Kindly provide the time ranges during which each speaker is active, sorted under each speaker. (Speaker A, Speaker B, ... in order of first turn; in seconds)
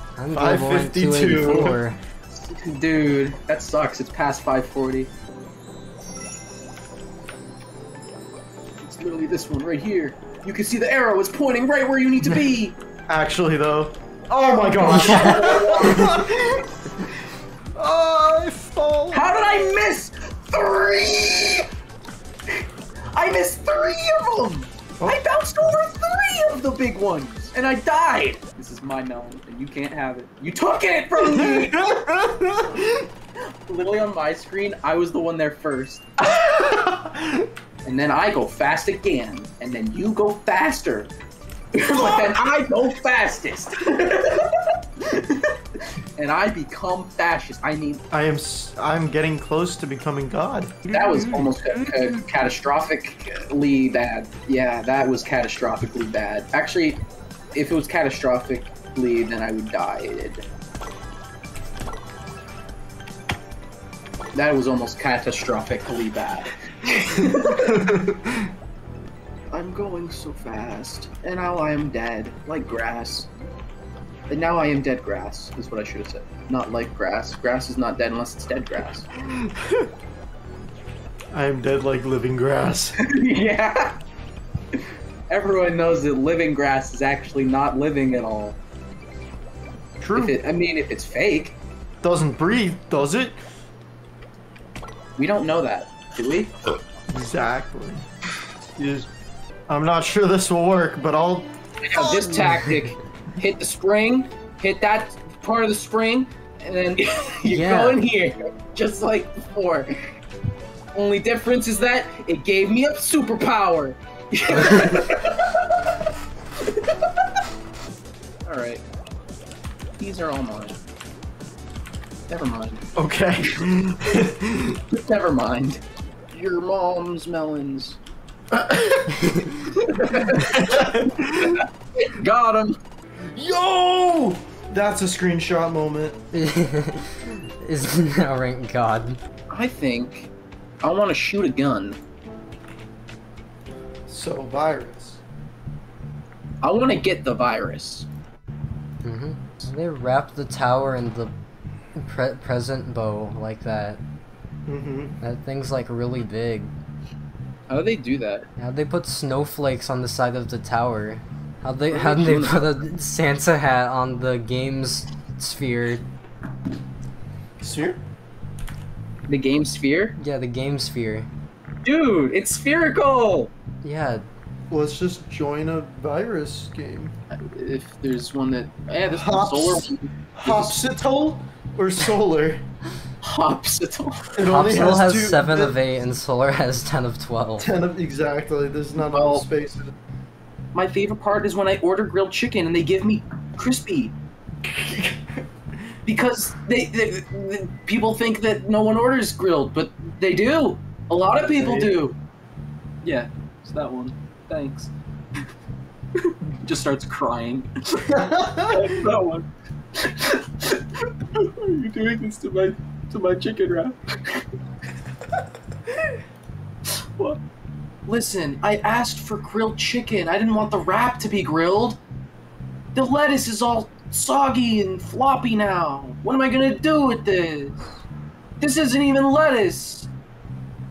Speaker A: 0.2-2.0, 14.9-16.0, 107.5-108.0, 129.2-129.5, 136.3-139.2, 149.0-151.3, 151.9-154.0, 155.2-156.7, 158.6-166.0, 170.2-171.3, 173.8-174.2, 184.5-187.7
Speaker B: 0.3-1.8, 13.1-16.7, 17.8-19.6, 31.2-33.1, 36.3-37.5, 42.0-42.3, 48.1-52.2, 67.2-68.5, 79.2-79.9, 81.3-83.0, 90.0-90.4, 92.0-93.4, 97.1-98.1, 98.7-99.1, 99.7-102.5, 123.0-124.8, 128.5-129.3, 130.3-131.6, 133.3-136.2, 144.1-145.2, 154.7-155.1, 167.6-168.0, 174.7-177.1, 179.1-182.6, 184.3-185.8, 187.6-189.9, 194.6-195.4, 201.6-202.0, 208.1-208.9
Speaker C: 2.4-5.1, 8.8-12.8, 14.8-16.2, 19.1-21.7, 23.1-32.0, 33.7-36.1, 37.9-41.1, 41.7-48.0, 50.9-57.0, 57.5-60.4, 64.3-67.8, 69.5-73.3, 74.3-79.1, 83.0-84.0, 84.7-88.6, 90.1-91.6, 95.2-96.5, 101.8-110.1, 110.9-115.4, 118.5-118.8, 120.0-120.8, 122.3-122.8, 124.9-128.0, 129.7-132.8, 139.5-140.3, 140.8-142.0, 146.6-148.1, 157.7-158.5, 161.9-162.6, 169.3-170.2, 171.8-173.5, 177.3-180.8, 183.2-184.4, 189.1-189.4, 190.7-194.1, 196.1-202.2, 203.0-204.9, 206.2-214.4, 218.1-222.0, 222.9-227.8, 228.6-230.1